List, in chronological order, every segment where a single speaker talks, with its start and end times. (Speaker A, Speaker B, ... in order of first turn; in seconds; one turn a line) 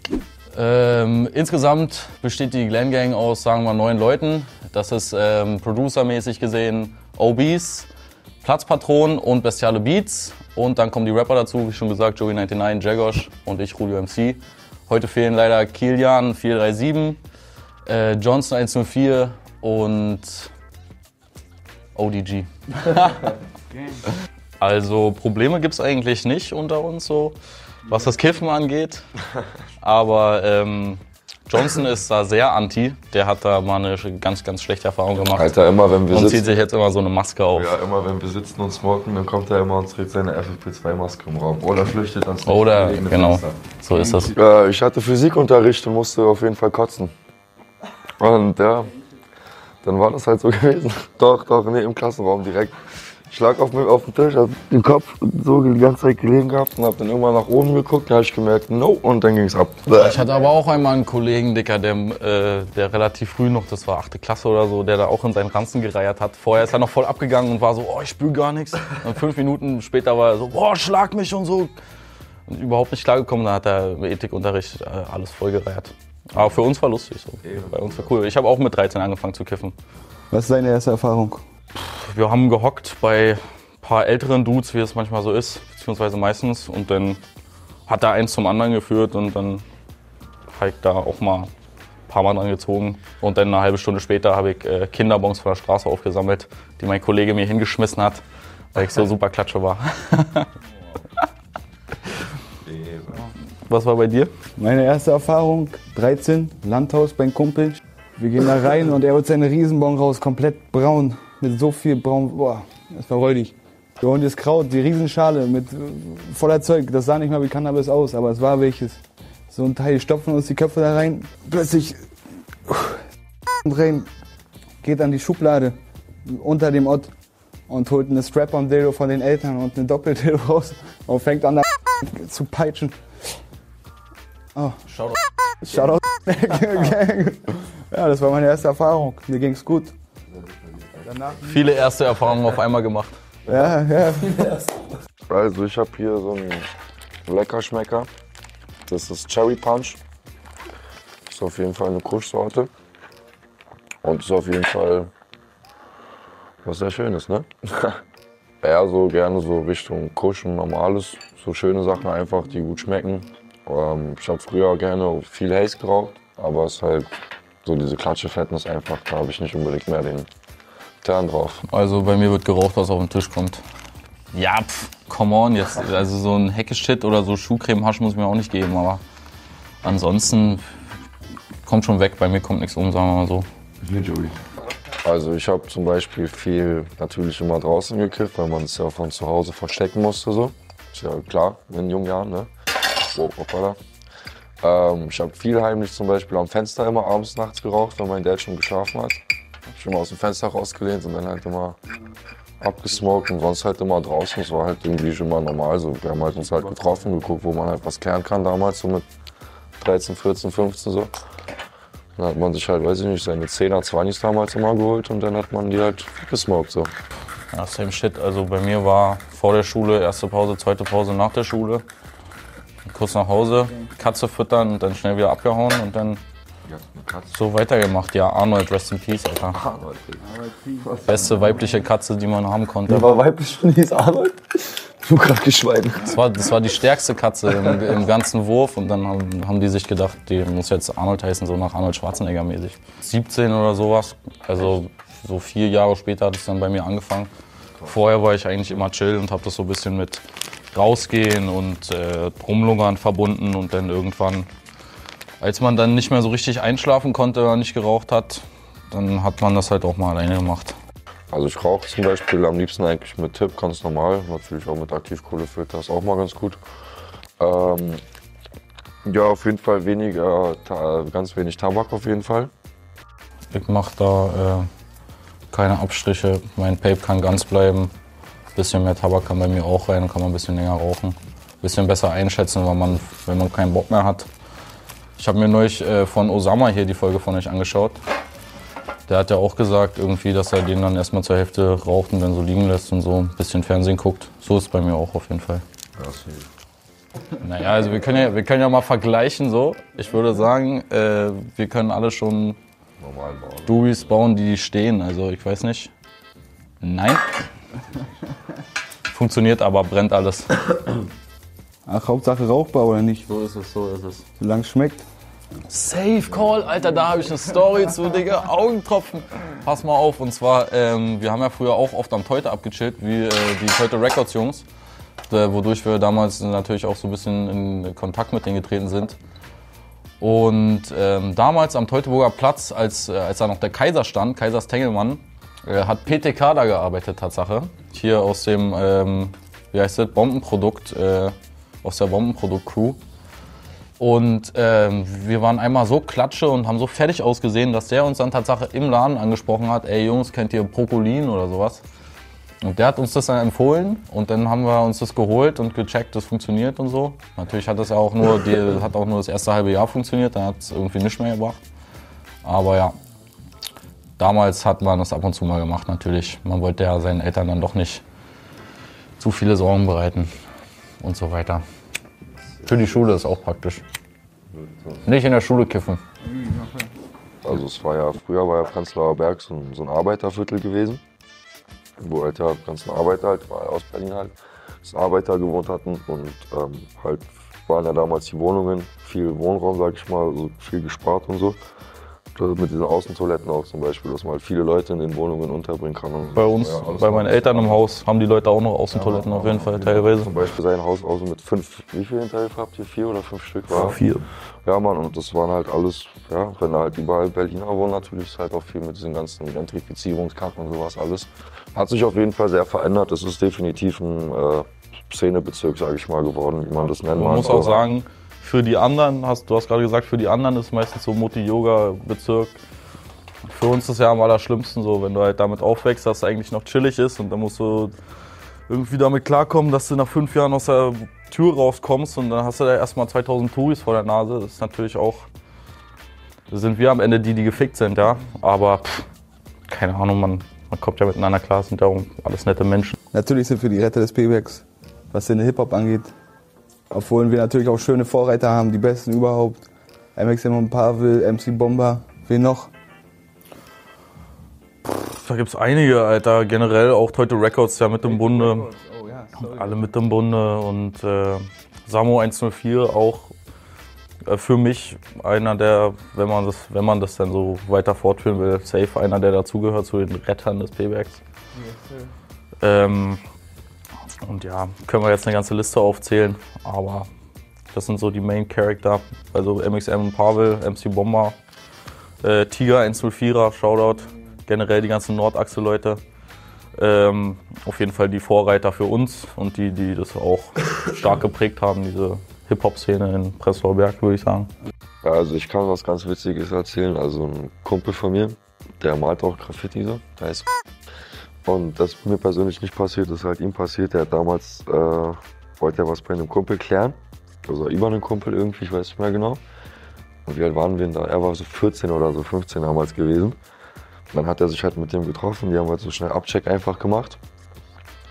Speaker A: 0.5-7.9
Speaker A: 8.4-17.2
Speaker A: 17.9-20.5
Speaker A: 21.9-23.4
Speaker A: 24.6-29.1
Speaker A: 29.8-35.5
Speaker B: 35.2-36.5
Speaker A: 36.1-37.7
Speaker B: 37.5-47.1
Speaker A: 42.4-44.3
Speaker B: 48.2-49.0
Speaker B: 49.8-60.2
Speaker A: 59.9-71.7
Speaker A: 72.5-79.7
Speaker B: 77.4-78.3
Speaker C: 80.3-81.4
Speaker A: 81.7-87.2
Speaker A: 87.9-89.6
Speaker A: 90.5-91.5
Speaker A: 92.1-98.2
Speaker A: 98.7-100.5
Speaker B: 102.6-103.3
Speaker A: 103.7-104.3
Speaker C: 104.6-122.1
Speaker C: 122.7-123.0
Speaker C: 123.6-124.1
Speaker C: 124.8-127.1
Speaker C: 127.7-132.9
Speaker C: 134.5-134.8
Speaker A: 134.9-135.2
Speaker C: 135.6-139.9
Speaker B: 140.7-141.0
Speaker C: 141.0-141.9
Speaker A: 141.4-143.2
Speaker C: 143.5-144.8
Speaker B: 145.3-146.7
Speaker B: 147.2-148.1
Speaker B: 148.9-150.0
Speaker B: 151.3-152.7
Speaker B: 154.0-155.1
Speaker B: 156.6-158.0
Speaker B: 158.6-167.1
Speaker B: 167.6-170.3
Speaker B: 171.0-171.6
Speaker A: 171.7-173.6
Speaker A: 174.3-179.0
Speaker A: 179.8-180.6
Speaker A: 181.6-183.5
Speaker B: 183.8-184.4
Speaker B: 185.0-192.5
Speaker B: 193.1-193.8
Speaker B: 194.6-201.8
Speaker B: 202.6-209.0
Speaker B: 209.8-211.1
Speaker B: 212.2-216.9
Speaker A: 217.5-221.8
Speaker A: 222.8-226.2
Speaker B: 226.7-227.4
Speaker A: 227.3-229.6
Speaker B: 229.5-231.6
Speaker A: 231.0-233.1
Speaker B: 232.9-236.7
Speaker A: 236.0-247.3
Speaker B: 237.4-238.0
Speaker A: 247.8-254.5
Speaker A: 255.4-260.8
Speaker B: 261.3-266.6
Speaker B: 267.4-268.0
Speaker B: 269.0-272.5
Speaker A: 273.5-274.7
Speaker A: 275.5-277.9
Speaker A: 278.5-284.3
Speaker A: 285.2-288.0
Speaker A: 289.1-295.6
Speaker B: 296.0-296.5
Speaker A: 297.4-302.6
Speaker B: 303.0-304.2
Speaker A: 303.6-305.9
Speaker A: 306.8-307.3
Speaker A: 309.1-310.8
Speaker C: 311.9-313.2
Speaker A: 313.2-314.2
Speaker C: 314.4-315.0
Speaker A: 315.7-324.6
Speaker A: 325.3-329.2
Speaker A: 330.2-343.0
Speaker A: 344.0-351.8
Speaker A: 352.6-361.6
Speaker A: 362.4-362.9
Speaker A: 364.2-368.0
Speaker A: 369.2-370.3
Speaker A: 371.0-371.6
Speaker A: 372.6-373.8
Speaker B: 374.5-375.0
Speaker A: 375.0-376.0
Speaker C: 376.4-376.8
Speaker B: 377.4-381.0
Speaker B: 382.0-391.6
Speaker B: 392.3-397.9
Speaker A: 396.3-400.3
Speaker B: 398.9-404.0
Speaker A: 403.7-404.3
Speaker B: 404.6-417.8
Speaker A: 417.1-422.6
Speaker A: 423.5-427.9
Speaker A: 428.7-435.3
Speaker A: 436.5-439.1
Speaker A: 439.7-442.9
Speaker C: 443.1-446.1
Speaker C: 446.9-449.6
Speaker C: 450.1-452.7
Speaker A: 454.8-458.7
Speaker C: 458.1-459.8
Speaker A: 459.4-463.3
Speaker A: 464.3-471.2
Speaker A: 472.6-473.2
Speaker A: 474.2-477.1
Speaker A: 477.7-481.4
Speaker A: 482.2-486.0
Speaker A: 486.8-494.5
Speaker B: 495.0-500.5
Speaker B: 501.4-509.4
Speaker B: 510.2-513.4
Speaker B: 514.1-517.2